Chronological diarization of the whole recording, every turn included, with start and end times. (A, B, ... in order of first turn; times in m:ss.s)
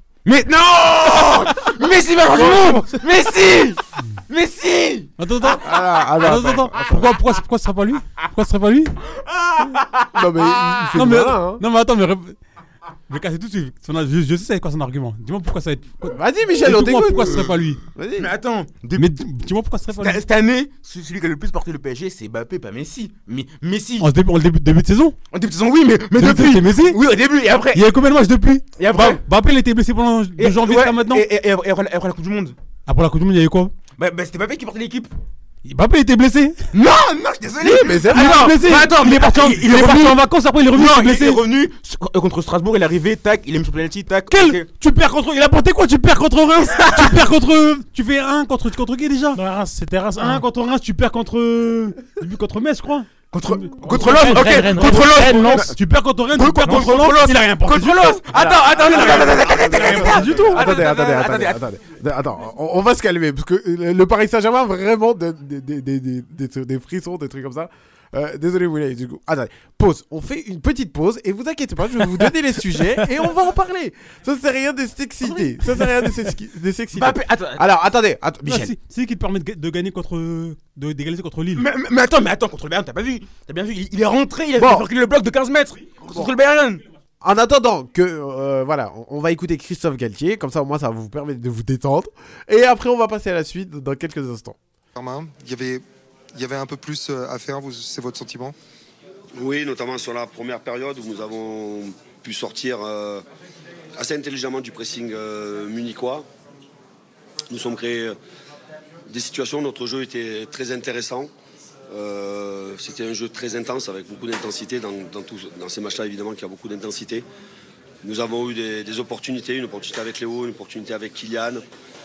0:00.2-0:05.5 A
0:05.2-0:08.9 B
0:05.6-0:07.2 C
0:09.2-0:10.9 A
0:10.1-0:11.6 C
0:10.9-0:12.4 B
0:13.1-0:17.8 B
0:16.1-0:18.3 C
0:18.2-0:19.1 A
0:19.0-0:20.2 B
0:20.0-0:24.1 A
0:24.0-0:25.2 B
0:25.3-0:27.9 A
0:26.2-0:27.0 B
0:27.7-0:31.2 B
0:28.8-0:29.2 A
0:30.4-0:32.6 A
0:32.9-0:33.7 B
0:34.0-0:35.1 A
0:35.6-0:36.6 B
0:36.7-0:44.7 A
0:37.6-0:38.6 C
0:38.0-0:41.4 B
0:44.3-0:49.4 B
0:46.8-0:47.2 A
0:49.3-0:50.5 D
0:50.2-1:00.6 B
0:53.3-0:55.7 A
0:53.8-0:55.7 D
0:56.4-1:01.6 A
0:56.7-0:57.0 D
0:58.9-0:59.3 D
0:59.0-1:18.7 C
1:16.9-1:17.6 A
1:18.5-1:21.7 B
1:21.6-1:26.8 A
1:24.6-1:24.9 C
1:27.2-1:34.6 C
1:35.0-1:35.8 E
1:36.4-1:38.6 E
1:39.4-1:43.2 F
1:44.0-1:46.3 F
1:47.5-1:48.2 F
1:49.1-1:51.3 F
1:51.9-1:57.2 F
1:58.0-2:01.6 F